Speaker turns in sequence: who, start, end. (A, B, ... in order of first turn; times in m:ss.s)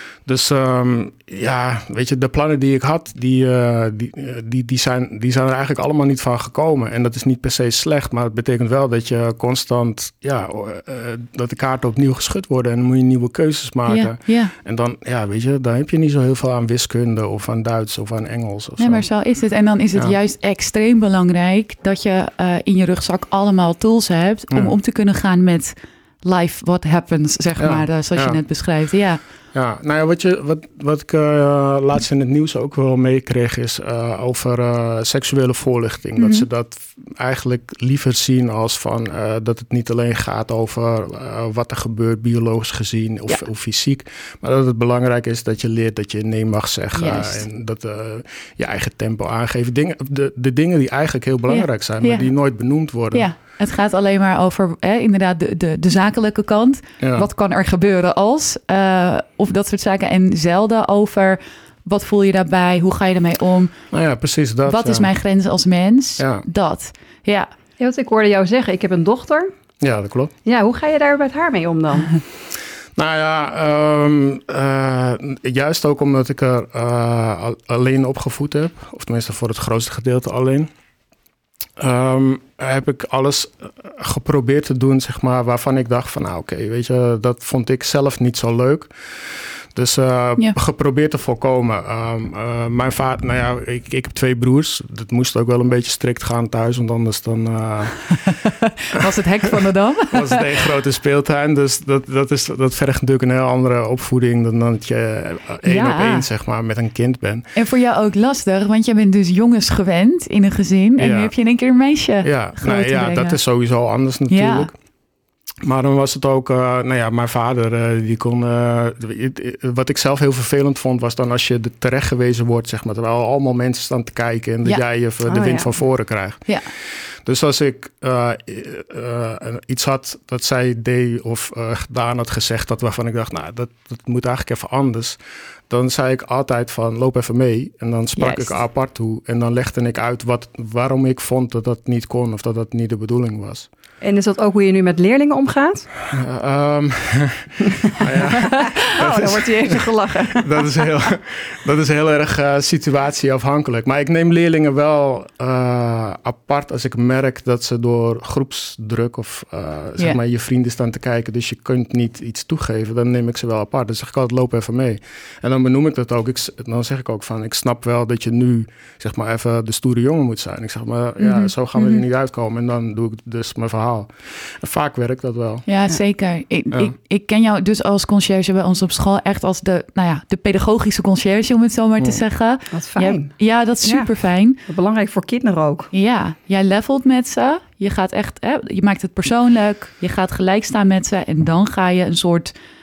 0:00.2-0:19.1 A
0:13.9-0:14.5 B
0:18.8-0:29.2 B
0:24.5-0:24.8 A
0:27.6-0:28.4 A
0:29.5-0:53.3 A
0:36.2-0:36.5 B
0:46.9-0:47.4 B
0:51.5-0:52.3 B
0:53.1-1:03.8 B
0:57.0-0:57.3 A
1:03.9-1:05.1 A
1:04.7-1:07.5 B
1:06.2-1:06.4 A
1:07.8-1:09.5 C
1:09.8-1:10.3 A
1:10.4-1:12.2 C
1:13.0-1:20.7 A
1:21.8-1:38.2 A
1:38.2-1:40.4 B
1:40.1-1:47.5 A
1:45.6-1:46.3 B
1:47.6-1:53.4 B
1:51.0-1:51.3 A
1:52.2-1:54.7 A
1:54.3-1:54.7 B
1:55.6-2:15.2 A
2:05.2-2:05.7 C
2:15.7-2:23.7 A
2:18.2-2:18.6 B
2:24.0-2:25.9 C
2:26.1-2:55.6 A
2:28.5-2:30.7 C
2:51.2-2:52.0 B
2:55.7-3:04.6 B
3:02.7-3:05.9 C
3:05.9-3:12.5 B